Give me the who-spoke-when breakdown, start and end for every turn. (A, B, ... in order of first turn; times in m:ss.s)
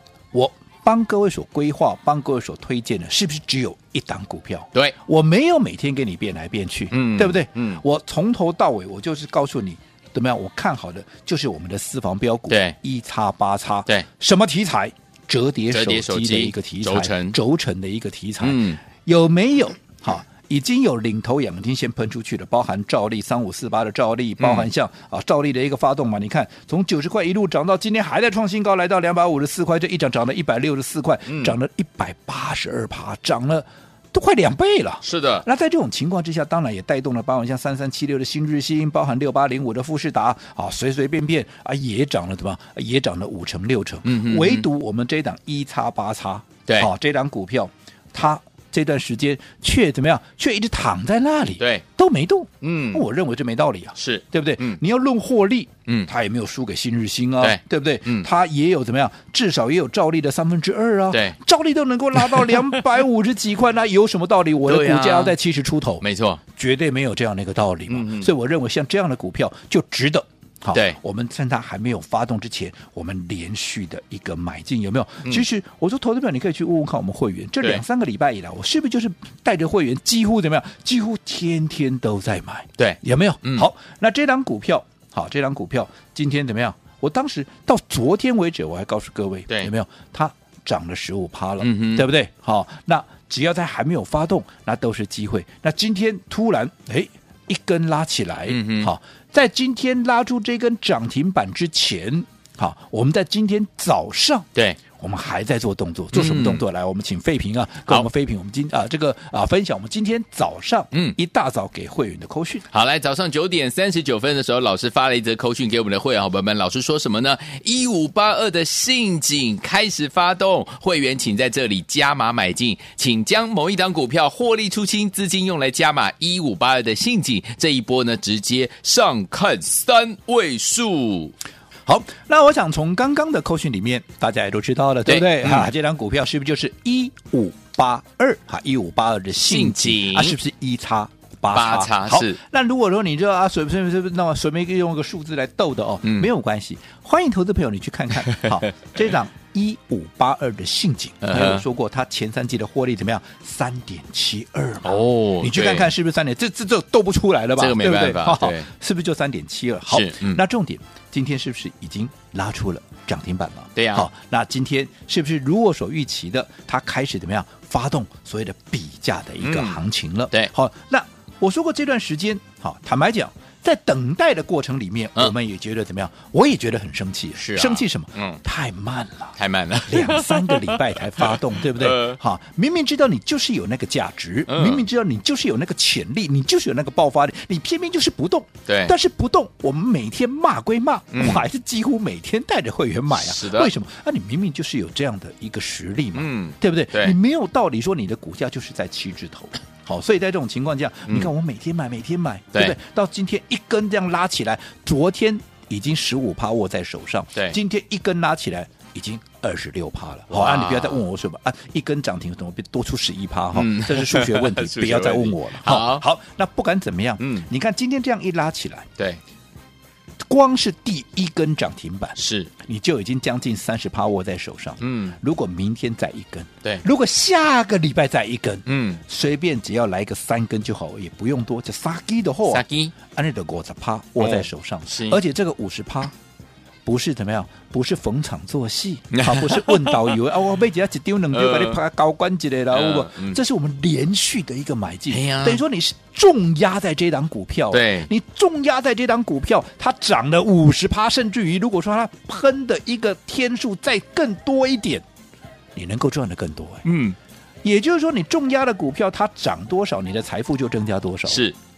0:00.3-1:52.7 A
0:06.9-0:07.8 B
0:12.5-0:12.8 B
0:15.7-0:17.4 B
0:18.4-0:18.8 B
0:24.4-0:24.7 B
0:31.3-0:31.5 B
0:35.0-0:35.4 B
0:44.0-0:44.7 B
0:52.6-0:53.0 B
0:54.0-0:54.8 B
0:57.4-0:58.3 B
1:01.1-1:01.4 B
1:02.2-1:02.7 B
1:04.6-1:05.4 B
1:06.0-1:06.4 B
1:07.9-1:08.3 B
1:10.7-1:11.0 B
1:22.8-1:23.7 B
1:31.6-1:32.1 B
1:38.5-1:38.9 B
1:46.1-1:46.6 B
1:52.7-2:11.3 B
2:11.9-3:38.9 A
2:15.1-2:15.7 B
2:19.4-2:20.4 B
2:21.5-2:22.4 B
2:26.0-2:26.3 B
2:28.3-2:28.6 B
2:31.2-2:31.6 B
2:34.8-2:35.9 B
2:37.6-2:38.7 B
2:39.9-2:40.4 B
2:43.8-2:44.1 B
2:49.4-2:49.8 B
2:57.4-2:58.4 B
2:59.4-3:02.2 B
3:04.5-3:04.8 B
3:08.7-3:08.9 B
3:11.1-3:11.4 B
3:13.1-3:13.7 B
3:16.2-3:17.2 B
3:30.3-3:31.0 B
3:33.5-3:36.0 B
3:37.2-3:37.5 B
3:40.3-3:56.1 A
3:42.2-3:42.5 B
3:44.8-3:45.2 B
3:48.7-3:49.0 B
3:52.5-3:52.9 B
3:54.2-3:55.2 B
3:56.9-4:15.0 A
3:59.1-4:00.2 B
4:01.3-4:01.8 B
4:02.7-4:03.4 B
4:05.1-4:05.6 B
4:07.7-4:08.1 B
4:15.8-4:16.8 A
4:16.8-4:17.2 B
4:17.6-4:21.4 A
4:21.3-4:21.6 B